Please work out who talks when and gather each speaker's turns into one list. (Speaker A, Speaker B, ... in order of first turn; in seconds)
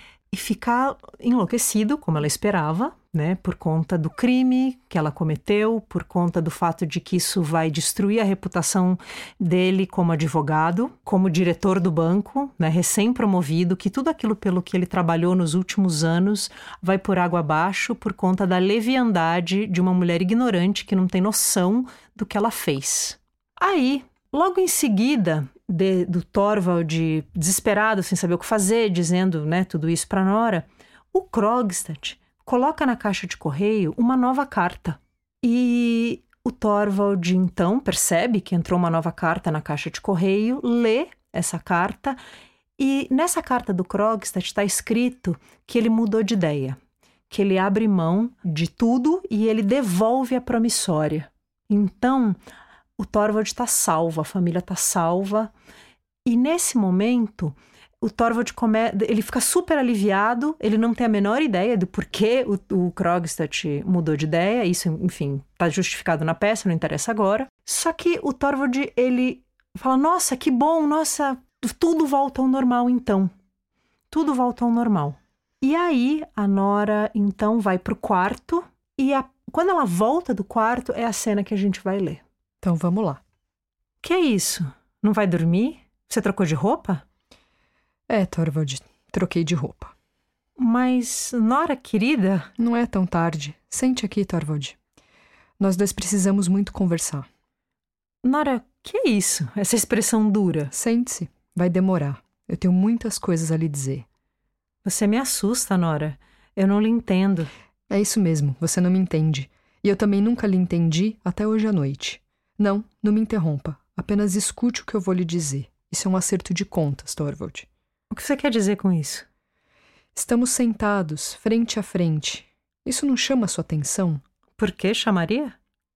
Speaker A: 0.3-42.2, 42.8-46.8, 47.3-52.4, 53.0-55.5, 56.2-73.3, 74.1-82.2, 84.0-87.0, 90.6-92.5, 98.2-100.7, 104.8-107.5, 118.1-119.3, 124.6-125.6
Speaker B: 82.6-83.2, 88.1-89.9, 92.6-94.8, 95.6-97.3, 100.7-104.0, 107.9-117.7, 120.2-124.2